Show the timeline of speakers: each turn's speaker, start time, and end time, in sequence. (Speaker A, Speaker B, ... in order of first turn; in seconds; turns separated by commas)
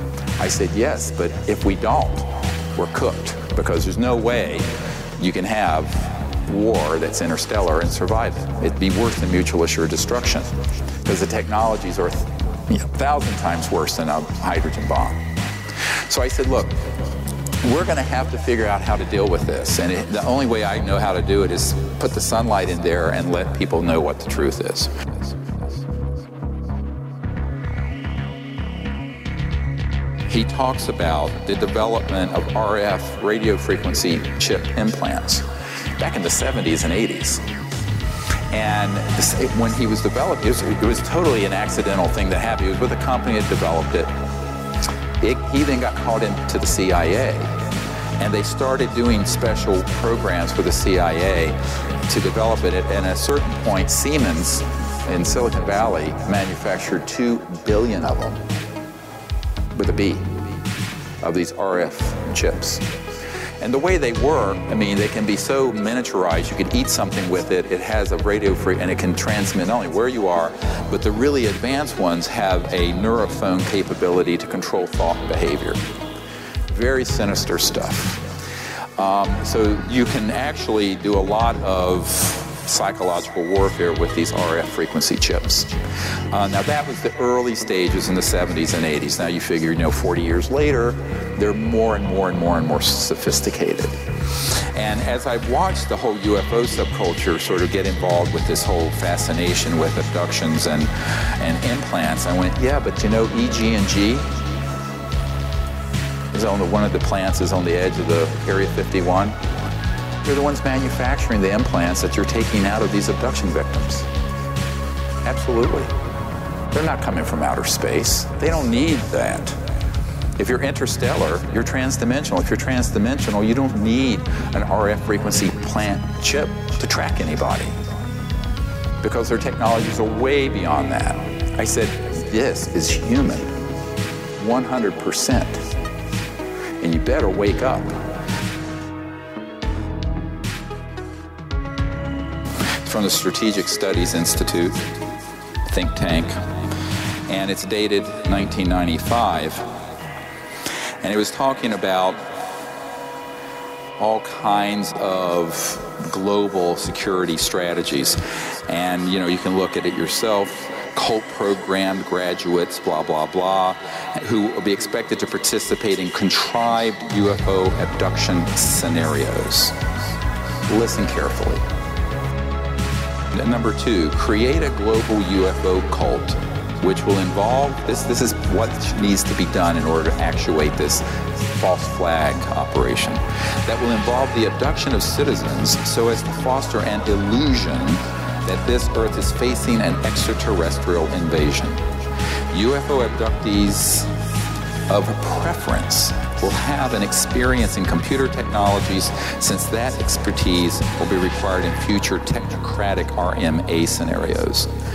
Speaker A: 0.4-15.3, Speaker A: 16.0-16.8, Speaker A: 17.6-25.1, Speaker A: 30.2-35.5, Speaker A: 36.0-37.5, Speaker A: 38.5-44.1, Speaker A: 45.2-47.5, Speaker A: 48.2-58.4, Speaker A: 59.7-60.4, Speaker A: 61.2-62.9, Speaker A: 63.6-75.8, Speaker A: 76.7-78.2, Speaker A: 79.0-94.0, Speaker A: 94.5-104.3, Speaker A: 106.3-109.4, Speaker A: 110.2-114.1, Speaker A: 115.2-115.9, Speaker A: 116.7-119.6, Speaker A: 120.4-127.8, Speaker A: 129.0-133.5, Speaker A: 134.4-135.7, Speaker A: 136.8-138.0, Speaker A: 142.8-144.8, Speaker A: 145.7-146.4, Speaker A: 147.3-149.7, Speaker A: 151.0-152.3, Speaker A: 154.0-169.8, Speaker A: 170.7-171.6, Speaker A: 173.3-191.8, Speaker A: 192.5-194.1, Speaker A: 194.9-204.7